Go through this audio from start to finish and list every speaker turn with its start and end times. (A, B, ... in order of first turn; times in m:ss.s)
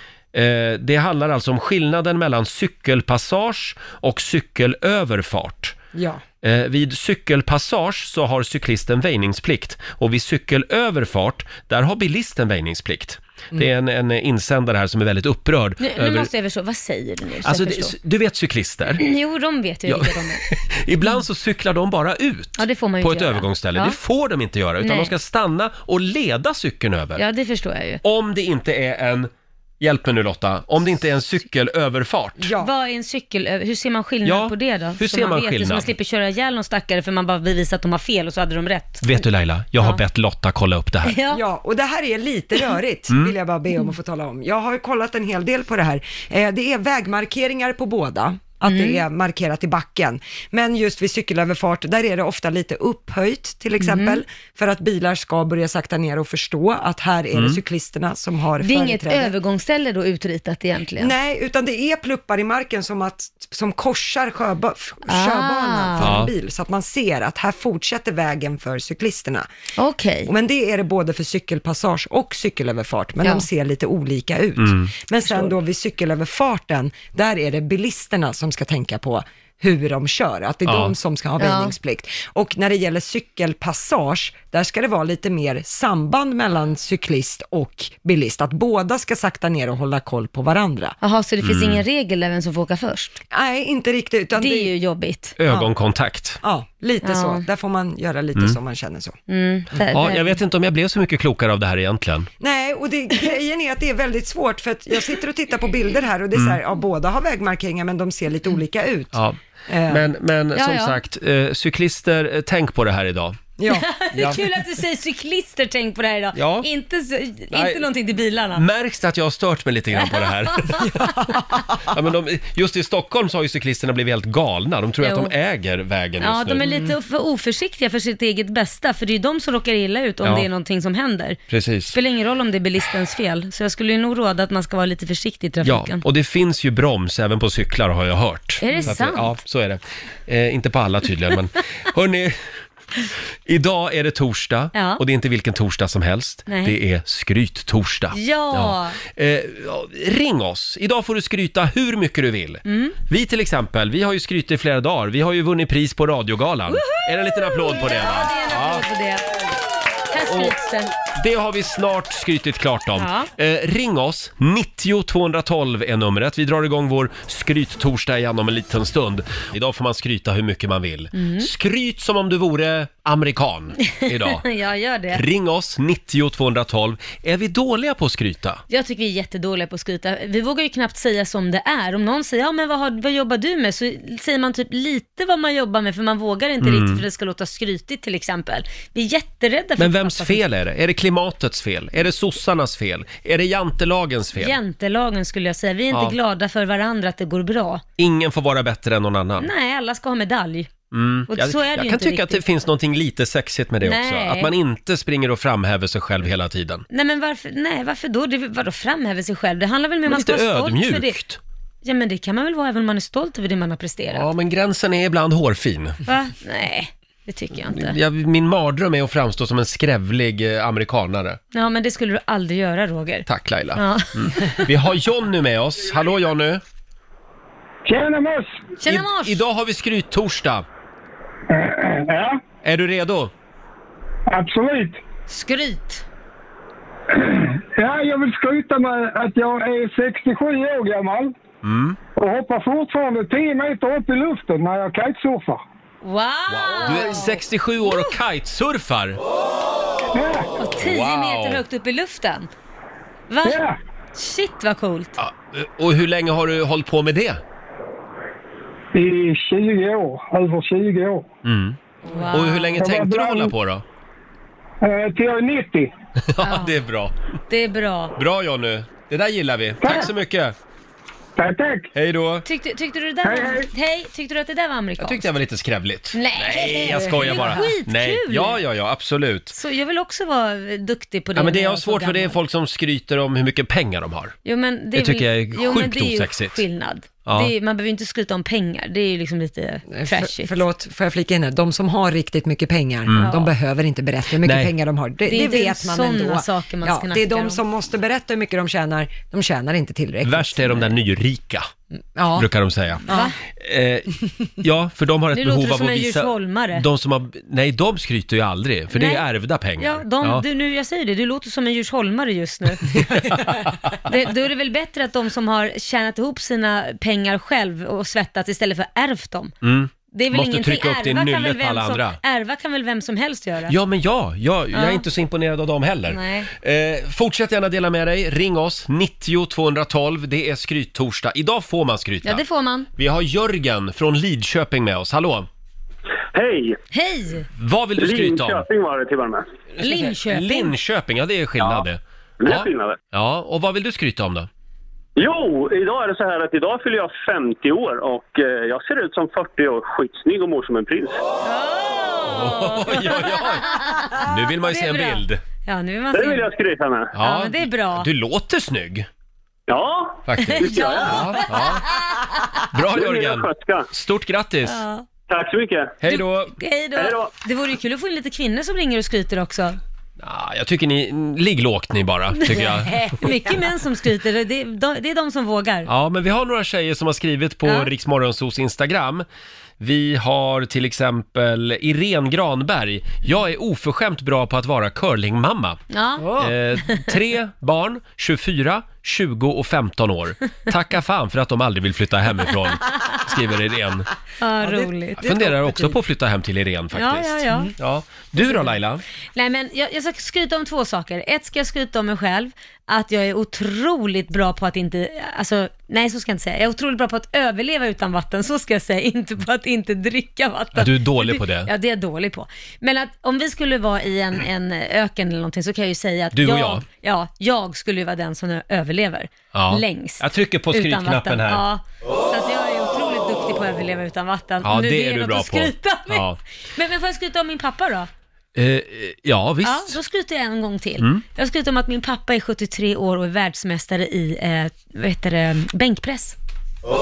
0:00.3-0:05.8 A
0:05.9-0:06.2 B
0:06.4-0:16.3 A
0:15.8-0:18.0 C
0:17.4-0:19.0 A
0:19.0-0:20.5 C
0:19.9-0:27.2 A
0:22.6-0:24.0 C
0:24.8-0:25.1 C
0:27.2-0:28.0 C
0:28.0-0:32.5 A
0:32.4-0:32.7 B
0:32.6-0:39.2 C
0:34.2-0:35.9 A
0:39.0-0:41.2 A
0:41.0-0:41.4 C
0:41.3-0:59.3 B
0:48.6-0:49.0 C
0:53.8-0:54.2 C
0:58.6-1:01.1 C
1:01.0-1:09.5 B
1:05.1-1:06.2 C
1:06.0-1:06.3 A
1:09.8-1:10.3 C
1:10.3-1:31.0 B
1:14.6-1:14.9 A
1:20.7-1:20.9 A
1:21.4-1:21.8 C
1:31.0-1:33.2 C
1:31.4-1:31.8 A
1:33.3-1:34.7 B
1:34.4-1:35.4 C
1:35.4-1:36.4 A
1:36.4-1:39.2 B
1:37.0-1:37.4 C
1:39.3-1:40.4 C
1:39.9-1:42.3 A
1:42.4-1:50.0 B
1:49.1-1:53.4 A
1:50.6-1:51.0 C
1:53.6-1:53.9 B
1:53.7-1:58.6 C
1:54.1-1:54.4 A
1:56.4-1:56.7 A
1:57.5-1:57.8 A
1:58.6-2:01.1 A
2:00.0-2:01.1 C
2:01.0-2:01.3 B
2:01.8-2:06.6 A
2:05.0-2:05.3 C
2:06.2-2:11.4 C
2:11.5-2:12.0 A
2:11.9-2:16.0 C
2:15.6-2:22.4 A
2:18.6-2:19.4 C
2:23.5-2:38.8 A
2:24.8-2:25.0 C
2:26.5-2:26.8 C
2:28.1-2:29.0 C
2:32.7-2:33.0 C
2:36.7-2:39.4 C
2:40.1-2:40.9 C
2:40.3-2:40.5 A
2:41.1-2:54.4 A
2:43.0-2:43.3 C
2:51.2-2:51.5 C
2:53.9-2:55.2 C
2:55.1-2:58.6 A
2:58.7-3:10.5 C
3:06.6-3:07.0 A
3:09.8-3:14.6 A
3:14.4-3:17.8 C
3:15.9-3:16.2 A
3:18.0-3:19.5 A
3:19.4-3:20.7 C
3:20.9-3:26.8 A
3:21.3-3:22.4 C
3:23.8-3:24.5 C
3:26.9-3:31.2 C
3:30.1-3:31.4 A
3:31.8-3:34.3 C
3:34.1-3:36.0 A
3:36.1-3:38.0 C
3:37.7-3:41.4 A
3:41.5-3:44.7 C
3:43.3-3:46.6 A
3:47.8-3:48.7 D
3:48.8-3:49.4 C
3:48.9-3:50.7 A
3:51.5-3:52.4 D
3:52.6-3:53.3 A
3:54.3-3:55.0 D
3:55.3-3:56.0 C
3:57.1-4:01.4 D
4:01.6-4:02.0 A
4:02.2-4:05.6 D
4:06.0-4:08.2 C
4:06.5-4:09.2 A
4:10.1-4:10.5 D
4:10.6-4:12.5 C
4:10.8-4:11.6 A
4:13.3-4:13.6 C
4:13.4-4:13.8 D
4:14.2-4:15.2 C
4:15.2-4:17.4 A
4:18.9-4:21.3 D
4:21.4-4:21.8 A
4:22.1-4:22.8 C
4:22.3-4:23.8 A
4:22.8-4:23.6 D
4:24.8-4:25.9 D
4:26.2-4:27.1 A
4:26.4-4:26.8 C
4:27.5-4:28.2 C
4:28.2-4:30.6 A
4:29.8-4:30.1 D
4:31.4-4:31.9 D
4:32.0-4:32.5 A
4:32.4-4:35.3 C
4:33.2-4:33.7 D
4:35.0-4:39.5 A
4:36.1-4:38.6 C
4:37.2-4:37.4 B
4:39.5-4:42.4 C
4:41.4-4:44.4 A
4:44.4-4:50.6 C
4:45.0-4:46.6 A
4:47.2-4:47.5 A
4:49.9-5:00.8 B
4:53.1-4:53.3 A
4:53.2-4:53.5 C
4:54.4-4:54.7 A
4:55.3-4:57.6 C
5:00.2-5:01.7 A
5:02.2-5:02.5 B
5:02.4-5:10.4 A
5:03.1-5:03.3 B
5:03.1-5:03.4 C
5:05.3-5:06.9 C
5:08.9-5:09.3 C
5:09.8-5:13.1 C
5:12.9-5:14.0 A
5:14.0-5:19.5 C
5:19.6-5:22.2 A
5:20.1-5:23.8 C
5:23.7-5:32.4 A
5:24.7-5:25.0 C
5:26.1-5:26.5 C
5:32.2-5:32.9 C
5:33.0-5:35.5 A
5:36.3-5:36.8 E
5:36.9-5:37.5 C
5:37.6-5:38.7 A
5:38.0-5:39.4 E
5:39.8-5:44.5 A
5:39.8-5:40.7 C
5:42.4-5:43.0 E
5:45.2-5:51.2 E
5:51.4-5:56.5 C
5:52.2-5:55.4 A
5:56.1-5:57.1 E
5:57.1-5:59.1 A
5:57.2-5:58.1 C
5:59.7-6:01.5 E
6:00.3-6:01.8 A
6:00.4-6:02.6 C
6:02.7-6:04.8 A
6:02.9-6:03.9 E
6:04.7-6:05.1 C
6:05.3-6:06.0 E
6:06.0-6:06.6 A
6:06.1-6:09.8 C
6:07.0-6:07.3 E
6:10.2-6:13.2 A
6:12.4-6:15.9 C
6:15.9-6:19.2 A
6:19.8-6:25.8 A
6:25.9-6:27.2 C
6:26.2-6:26.5 B
6:26.4-6:34.1 A
6:34.4-6:35.3 C
6:34.6-6:36.0 B
6:35.2-6:39.0 A
6:36.9-6:37.7 C
6:38.4-6:38.7 C
6:39.4-7:08.1 C
6:50.8-6:51.7 A
6:56.3-6:56.8 A
6:59.5-7:01.6 A
7:04.6-7:06.4 A
7:08.6-7:10.0 A
7:09.6-7:16.4 C